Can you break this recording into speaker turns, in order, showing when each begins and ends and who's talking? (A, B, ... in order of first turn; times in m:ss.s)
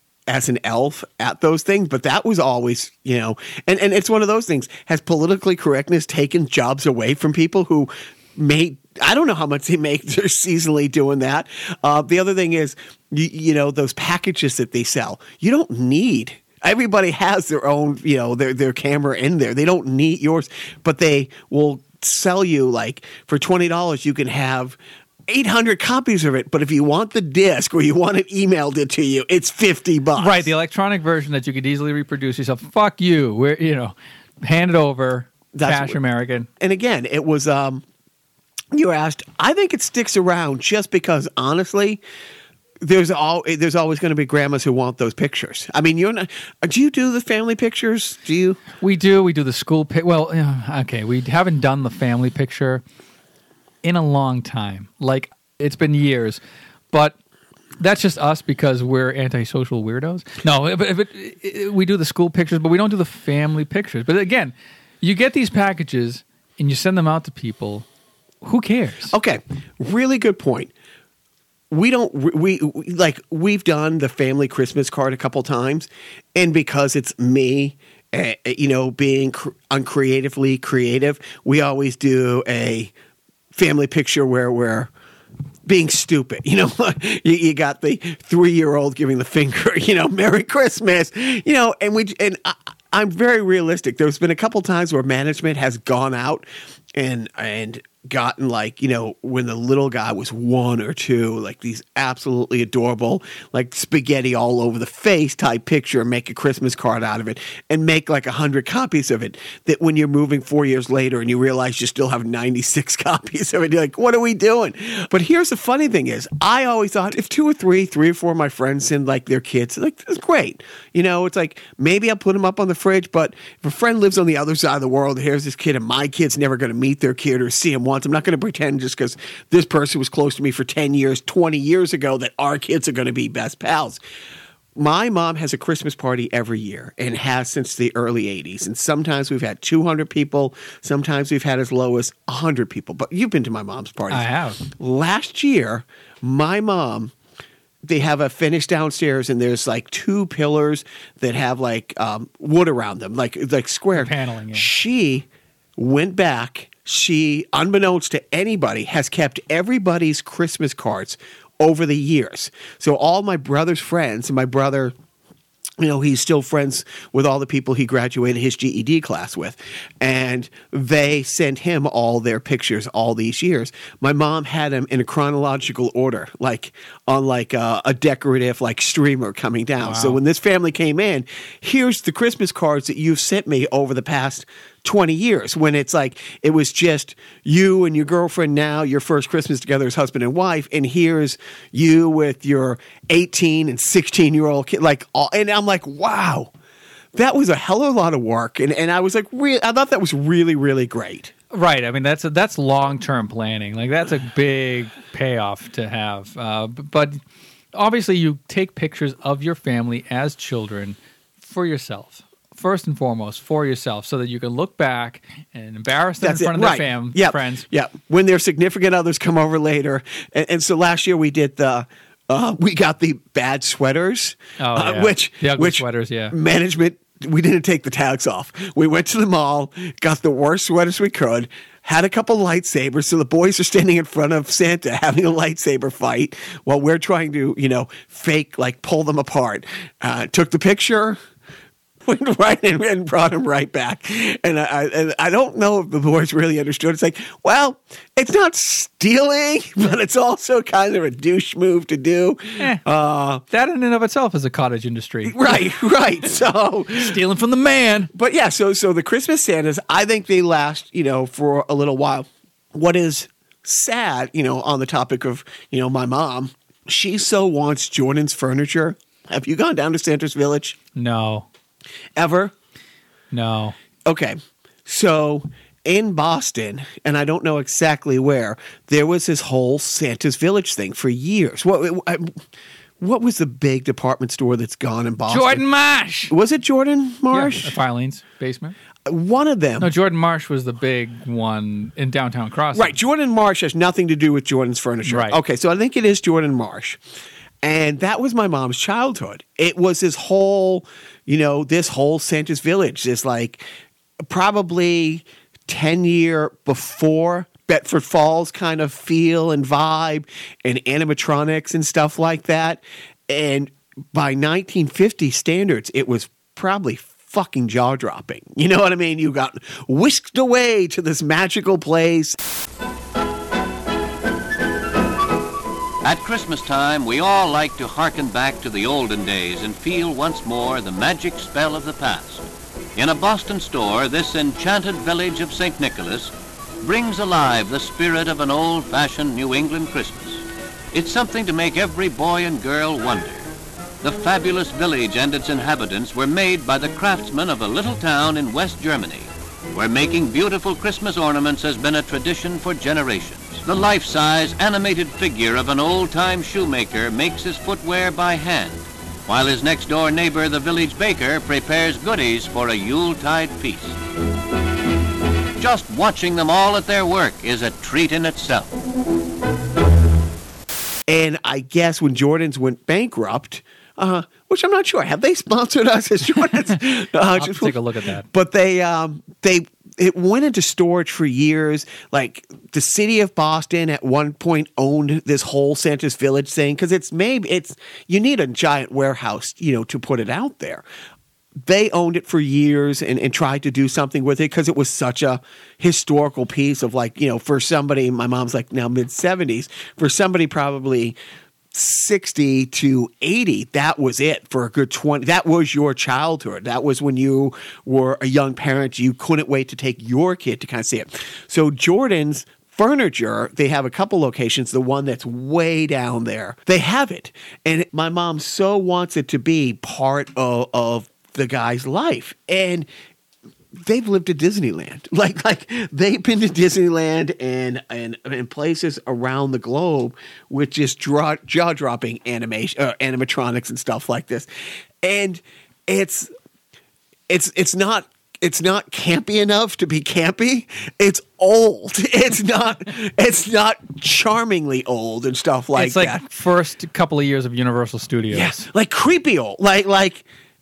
0:00.3-0:30.5 A
0:30.2-0:36.5 B
0:35.5-0:36.0 A
0:36.6-0:37.8 A
0:38.7-0:42.0 A
0:42.8-0:48.6 A
0:48.8-0:52.8 B
0:53.8-0:56.4 B
0:56.9-0:57.2 B
0:57.8-1:07.8 B
1:08.4-1:09.1 B
1:09.1-1:10.7 A
1:11.7-1:22.9 A
1:23.5-1:24.9 A
1:25.6-2:14.0 A
2:14.8-2:27.1 A
2:24.1-2:24.6 B
2:27.8-2:35.2 A
2:33.9-2:34.7 B
2:35.8-2:44.9 A
2:45.8-3:16.5 A
2:59.8-3:00.2 B
3:17.1-3:21.3 A
3:21.5-3:27.2 B
3:27.7-3:37.6 B
3:36.2-4:01.2 A
3:44.6-3:46.3 B
4:02.0-4:13.4 A
4:12.6-4:12.8 B
4:13.5-4:15.6 B
4:15.2-4:17.2 A
4:16.9-4:18.1 B
4:18.1-4:30.8 A
4:31.0-4:31.4 B
4:32.2-4:32.5 A
4:33.3-4:33.8 B
4:34.0-4:42.4 A
4:43.0-4:45.6 A
4:45.3-4:46.3 B
4:46.3-4:47.7 A
4:47.3-4:48.8 B
4:49.0-4:49.9 A
4:49.8-4:52.9 B
4:52.7-4:57.0 A
4:55.0-4:55.4 B
4:57.6-5:03.6 A
5:04.2-5:22.4 A
5:26.0-5:32.4 C
5:33.0-5:43.5 C
5:44.0-6:04.0 C
6:05.6-6:08.8 C
6:11.1-6:30.8 A
6:17.3-6:18.2 B
6:31.6-6:41.2 A
6:41.7-7:02.9 A
7:03.8-7:14.5 A
7:15.0-7:16.3 A
7:17.3-7:26.2 A
7:25.7-7:28.6 B
7:28.3-7:30.2 A